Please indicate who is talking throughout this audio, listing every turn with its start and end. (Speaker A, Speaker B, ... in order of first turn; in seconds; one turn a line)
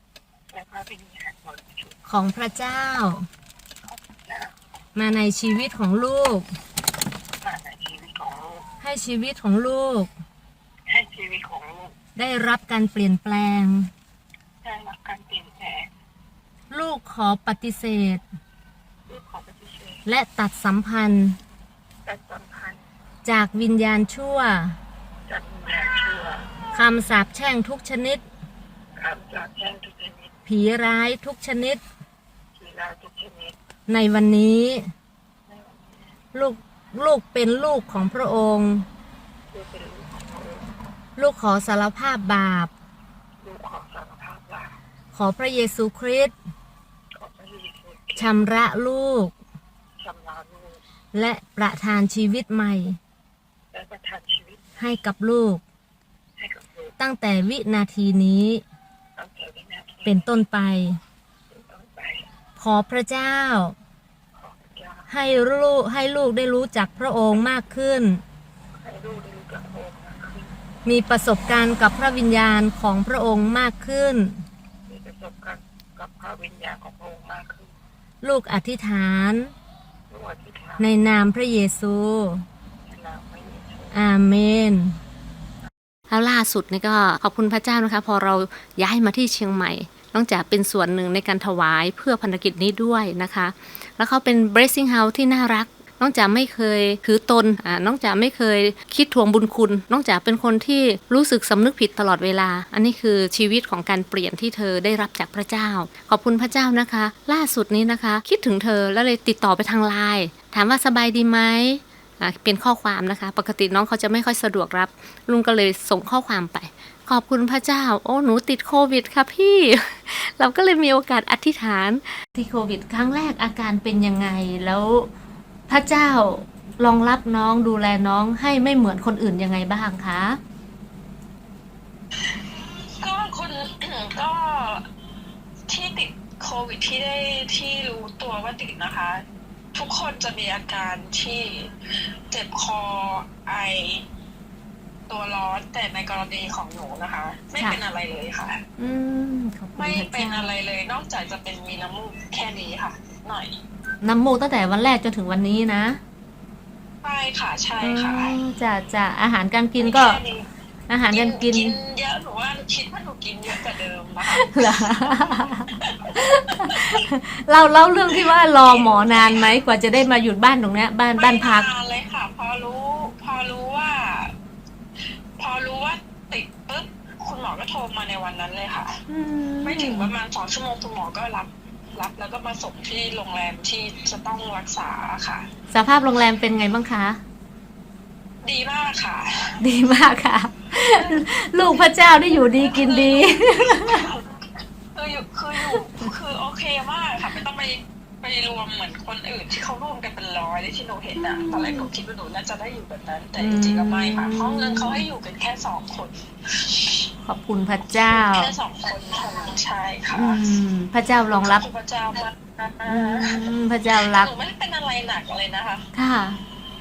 Speaker A: 0.5-1.9
Speaker B: 2.1-3.2
Speaker A: 3.9-4.5
Speaker B: 4.9-6.5
Speaker A: 7.4-8.7
Speaker B: 8.8-10.1
Speaker A: 10.9-11.9
Speaker B: 12.2-13.9
Speaker A: 14.6-15.9
Speaker B: 16.7-18.2
Speaker A: 19.1-20.0
Speaker B: 20.1-21.4
Speaker A: 22.1-22.8
Speaker B: 23.2-24.8
Speaker A: 25.3-26.5
Speaker B: 26.7-28.2
Speaker A: 29.0-30.4
Speaker B: 30.5-31.8
Speaker A: 32.6-33.6
Speaker B: 33.9-34.9
Speaker A: 35.5-36.0
Speaker B: 36.3-38.8
Speaker A: 39.5-40.6
Speaker B: 41.2-42.7
Speaker A: 43.4-44.8
Speaker B: 45.1-46.3
Speaker A: 47.1-48.3
Speaker B: 48.2-49.3
Speaker A: 50.0-50.8
Speaker B: 51.1-53.0
Speaker A: 53.7-54.8
Speaker B: 54.8-55.6
Speaker A: 56.4-57.0
Speaker B: 57.0-58.6
Speaker A: 59.2-60.2
Speaker B: 60.0-61.0
Speaker A: 61.5-62.3
Speaker B: 62.6-63.8
Speaker A: 64.3-65.1
Speaker B: 65.1-68.2
Speaker A: 68.8-70.5
Speaker B: 70.8-74.4
Speaker A: 74.9-77.7
Speaker B: 78.2-79.5
Speaker A: 80.1-80.9
Speaker B: 80.8-82.4
Speaker A: 82.8-84.0
Speaker B: 83.9-85.0
Speaker B: 86.1-125.1
Speaker B: 125.7-130.4
Speaker C: 133.0-134.8
Speaker C: 135.7-139.2
Speaker C: 139.7-141.7
Speaker C: 142.3-144.0
Speaker C: 145.1-148.6
Speaker B: 148.8-150.5
Speaker C: 149.8-153.6
Speaker B: 154.0-156.0
Speaker C: 157.0-158.4
Speaker B: 157.8-160.2
Speaker C: 159.8-160.5
Speaker B: 160.9-161.8
Speaker C: 161.1-165.3
Speaker B: 164.3-171.7
Speaker C: 166.1-166.8
Speaker C: 168.6-169.6
Speaker C: 171.1-174.3
Speaker C: 175.4-179.0
Speaker B: 179.1-180.1
Speaker C: 179.6-185.5
Speaker B: 185.7-187.2
Speaker C: 188.4-189.6
Speaker B: 189.6-194.1
Speaker C: 190.9-191.2
Speaker C: 192.4-194.2
Speaker C: 194.9-207.1
Speaker B: 201.2-201.9
Speaker B: 203.4-205.0
Speaker B: 207.2-208.5
Speaker C: 207.9-210.4
Speaker B: 210.1-211.6
Speaker C: 211.4-215.8
Speaker B: 212.9-214.3
Speaker B: 215.9-216.4